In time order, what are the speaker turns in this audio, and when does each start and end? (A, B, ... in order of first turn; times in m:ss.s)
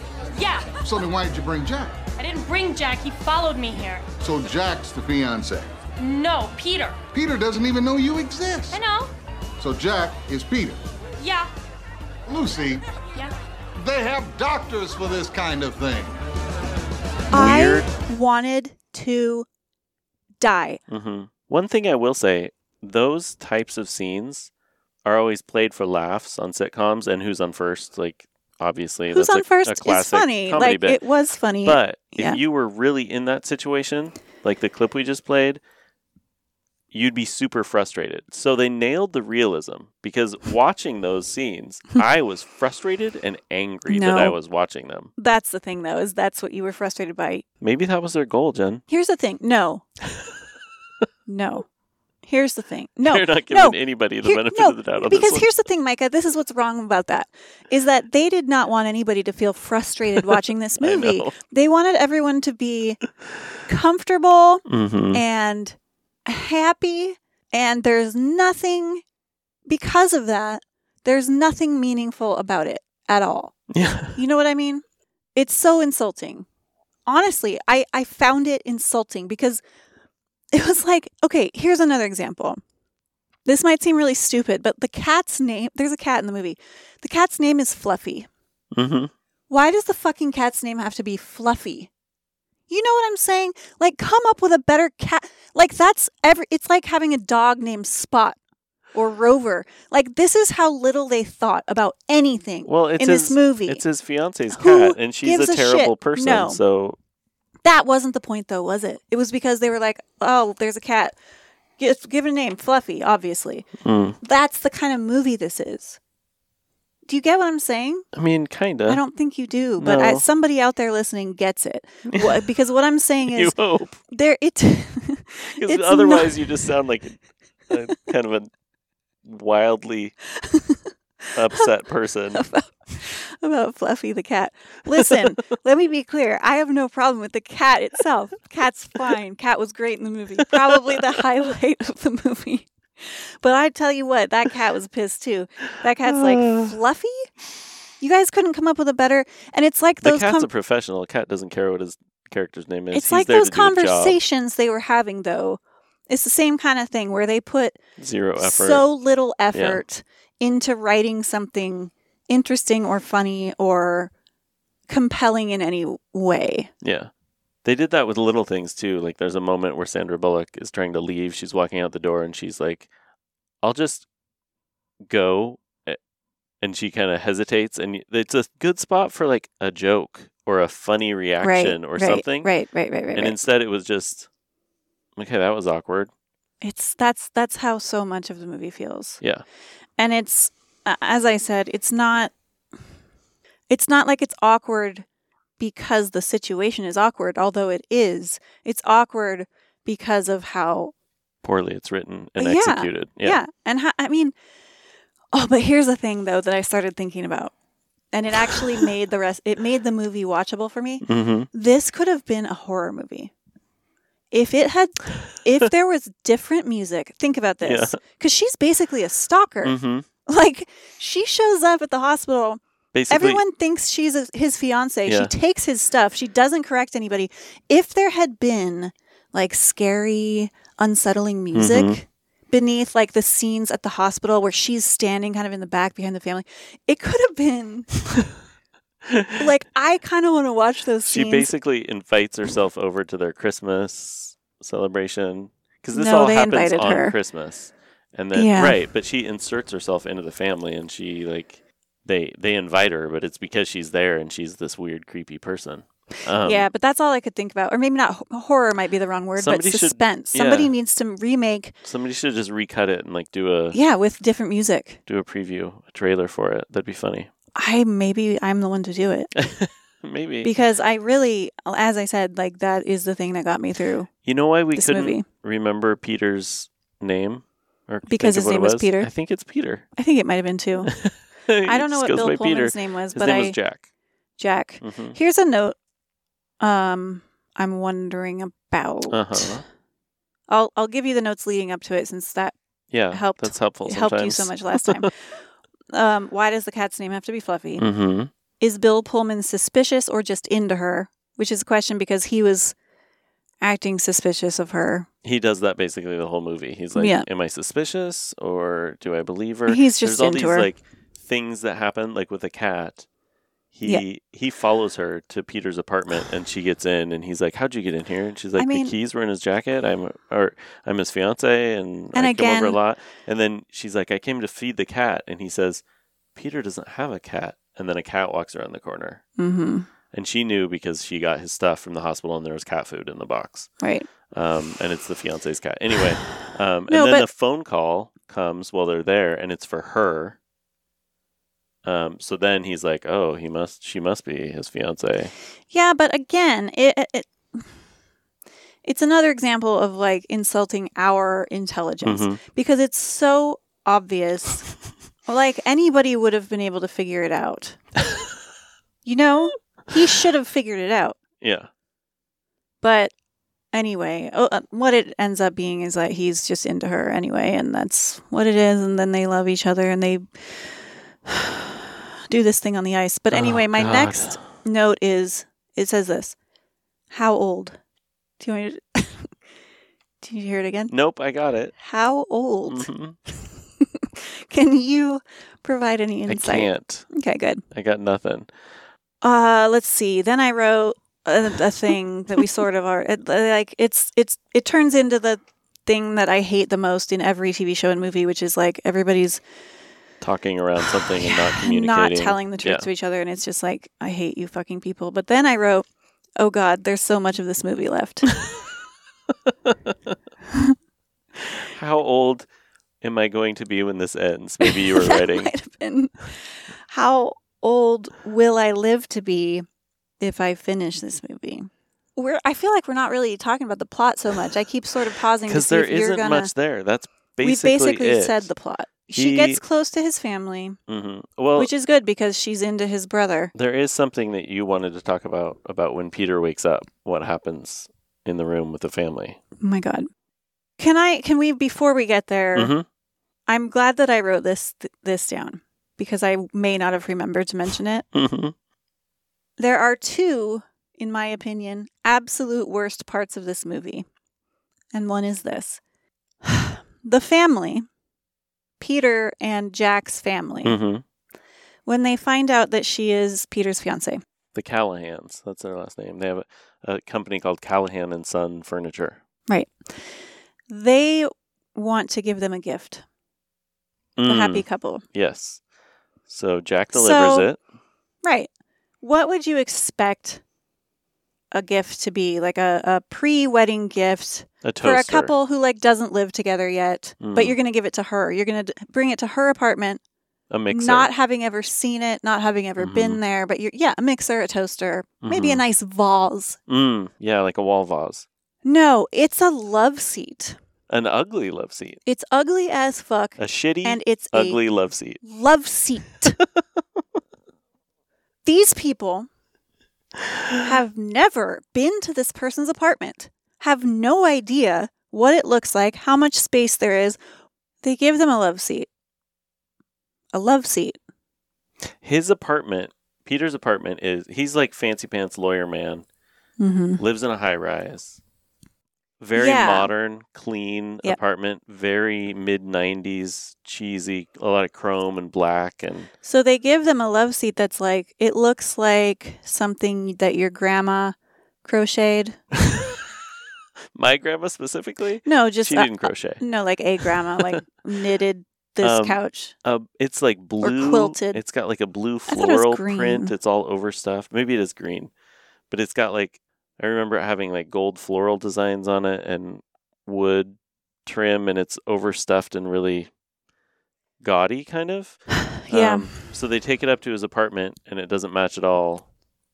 0:00.3-0:00.8 A
0:00.8-0:02.0 B
0:02.2-0:04.0 A
0:04.2-0:05.7 B
0:06.0-0:07.0 A
0:07.1-0:08.8 B
0:08.7-0:09.1 A
0:09.6-0:10.8 B
0:11.2-0:11.5 A
0:12.3-0:12.8 B
0:13.8-0:16.2 B
0:17.3-0:17.9 C
0:17.3-0:19.5 D
0:20.4-0:20.8 D
0:20.9-0:24.5 C
0:25.0-0:31.0 C
0:29.1-0:32.4 D
0:31.6-0:35.6 C
0:36.9-0:45.1 C
0:43.9-0:44.4 D
0:45.2-0:47.4 D
0:47.6-0:48.8 C
0:48.9-0:49.8 D
0:51.3-0:51.6 D
0:52.2-1:03.0 D
0:53.0-0:55.5 C
1:00.8-1:01.4 C
1:03.6-1:09.0 D
1:04.7-1:05.2 C
1:09.7-1:13.6 D
1:13.7-1:14.2 C
1:14.1-1:14.8 D
1:15.3-1:16.5 D
1:17.0-1:19.6 D
1:20.5-1:22.6 D
1:23.4-1:28.3 D
1:28.7-1:29.1 C
1:29.5-1:31.9 D
1:32.7-1:38.4 D
1:38.9-1:43.8 D
1:42.6-1:47.0 C
1:44.5-1:46.6 D
1:47.6-1:51.2 D
1:51.8-1:53.7 D
1:53.8-1:54.2 C
1:54.2-1:56.0 D
1:57.0-1:58.0 D
1:58.1-1:59.0 C
1:58.9-2:03.6 D
1:59.8-2:00.2 C
2:02.1-2:02.4 C
2:03.3-2:04.0 C
2:04.1-2:06.4 D
2:05.5-2:08.5 C
2:09.2-2:10.1 C
2:10.4-2:10.9 D
2:11.3-2:12.4 C
2:12.3-2:27.3 D
2:26.0-2:26.7 C
2:28.0-2:30.5 D
2:30.0-2:34.2 C
2:32.9-2:37.8 D
2:38.0-2:38.8 C
2:38.4-2:44.1 D
2:39.5-2:39.8 C
2:44.9-2:46.7 D
2:46.8-2:47.1 C
2:47.6-2:52.9 C
2:53.6-2:54.0 C
2:55.1-2:56.0 C
2:56.6-3:02.5 C
3:01.4-3:03.4 D
3:03.1-3:04.3 C
3:05.2-3:06.1 C
3:06.6-3:09.2 D
3:10.0-3:12.3 D
3:13.7-3:15.0 D
3:15.6-3:20.9 D
3:21.4-3:23.4 C
3:22.4-3:24.3 D
3:25.3-3:27.5 D
3:28.1-3:33.3 D
3:31.0-3:31.5 C
3:34.3-3:58.0 D
3:37.6-3:38.0 C
3:39.6-3:40.0 C
3:42.9-3:43.4 C
3:45.0-3:45.3 C
3:51.5-3:52.0 C
3:59.1-3:59.4 C
3:59.4-4:01.5 D
4:01.0-4:16.7 C
4:05.9-4:07.2 D
4:08.3-4:08.8 D
4:16.4-4:21.7 D
4:19.4-4:20.7 C
4:21.8-4:23.8 C
4:23.7-4:25.0 D
4:25.1-4:27.3 C
4:27.6-4:29.3 D
4:29.4-4:30.5 C
4:30.4-4:34.1 D
4:34.2-4:39.8 C
4:34.7-4:35.2 D
4:38.1-4:39.1 D
4:40.0-4:40.9 D
4:40.9-4:43.8 C
4:41.6-4:43.6 D
4:44.4-4:45.8 D
4:44.8-4:45.2 C
4:46.6-4:49.6 D
4:49.1-4:49.6 C
4:50.5-4:52.5 D
4:52.9-4:55.1 C
4:53.1-4:55.1 D
4:55.9-4:57.8 D
4:57.8-4:58.3 C
4:58.6-5:02.7 D
5:03.6-5:05.1 D
5:05.2-5:13.1 C
5:07.0-5:07.3 D
5:09.7-5:10.7 D
5:13.7-5:25.8 C
5:18.6-5:18.9 D
5:22.1-5:22.8 D
5:26.4-5:29.2 C
5:29.4-5:29.9 D
5:30.1-5:33.7 C
5:33.8-5:34.1 D
5:34.3-5:40.4 C
5:36.9-5:37.2 D
5:41.8-5:45.3 C
5:45.7-5:47.6 D
5:48.8-5:54.7 D
5:52.0-5:52.4 C
5:55.2-5:57.8 D
5:59.0-6:01.2 D
6:01.4-6:01.7 C
6:02.8-6:03.1 D
6:03.7-6:10.2 D
6:11.2-6:16.4 D
6:13.3-6:14.4 C
6:17.1-6:17.8 D
6:18.4-6:19.3 D
6:20.2-6:20.9 D
6:20.9-6:21.7 C
6:21.8-6:22.9 D
6:22.6-6:23.2 C
6:23.4-6:27.6 D
6:26.3-6:27.1 C
6:27.7-6:28.5 C
6:29.2-6:39.4 D
6:40.2-6:42.9 C
6:41.2-6:45.8 D
6:46.4-6:48.3 D
6:49.5-6:50.1 C
6:51.6-6:52.4 C
6:53.0-6:55.5 C
6:54.6-6:59.6 D
7:00.2-7:06.5 D
7:05.5-7:08.5 C
7:07.4-7:10.8 D
7:09.1-7:09.6 C
7:10.9-7:11.7 C
7:11.6-7:13.5 D
7:13.5-7:19.4 C
7:19.6-7:20.1 D
7:20.8-7:22.7 D
7:22.5-7:22.8 C
7:23.5-7:28.0 D
7:28.1-7:28.5 C
7:29.6-7:34.0 D
7:34.9-7:35.8 D
7:36.4-7:37.8 D
7:38.8-7:40.8 D
7:40.6-7:41.0 C
7:41.8-7:44.2 D
7:44.5-7:49.2 C
7:49.5-7:49.7 D
7:50.7-7:53.0 D
7:54.2-7:55.6 C
7:54.2-7:55.0 D
7:56.3-7:57.6 C
7:56.9-7:57.5 D
7:58.2-7:58.5 D
7:59.0-8:00.4 D
8:01.5-8:10.0 D
8:04.6-8:05.3 C
8:07.2-8:07.6 C
8:10.5-8:11.1 C
8:10.7-8:16.6 D
8:12.8-8:13.2 C
8:15.2-8:15.6 C
8:16.7-8:18.2 C
8:18.6-8:20.6 D
8:20.9-8:22.0 C
8:22.0-8:24.6 D
8:23.4-8:25.2 C
8:25.2-8:26.4 D
8:28.4-8:29.3 D
8:30.6-8:37.2 D
8:37.8-8:38.9 D
8:40.3-8:41.0 D
8:42.0-8:46.0 C
8:46.6-8:47.0 D
8:47.0-8:48.2 C
8:49.2-8:56.1 C
8:49.3-8:49.9 D
8:56.2-9:02.4 D
9:02.6-9:03.0 C
9:03.9-9:06.4 C
9:05.2-9:09.5 D
9:08.8-9:15.1 C
9:10.6-9:11.4 D
9:12.3-9:13.3 D
9:15.7-9:23.1 C
9:24.2-9:29.1 C
9:25.6-9:26.1 D